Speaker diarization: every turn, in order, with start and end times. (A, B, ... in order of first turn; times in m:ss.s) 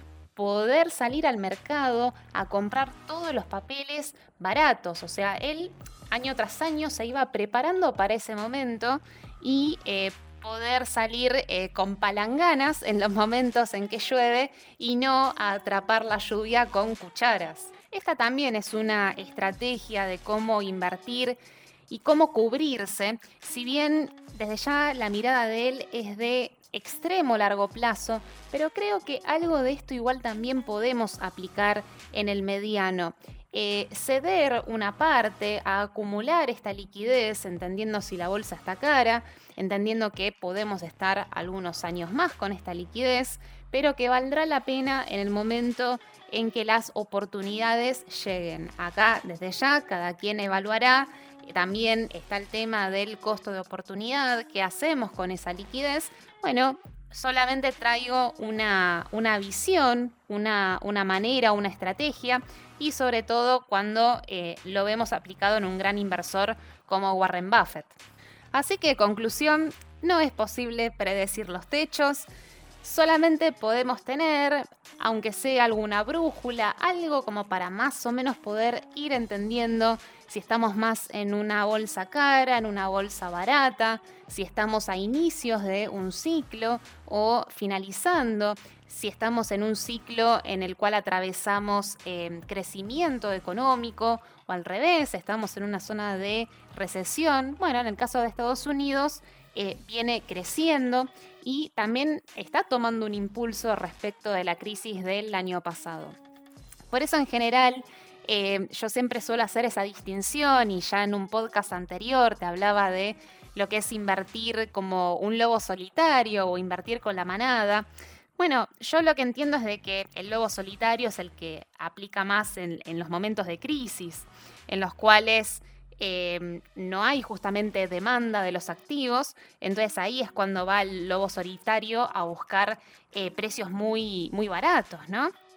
0:00.4-1:08.0 A
1:08.5-1:12.3 A
1:12.8-1:46.2 A
1:46.9-2:15.3 A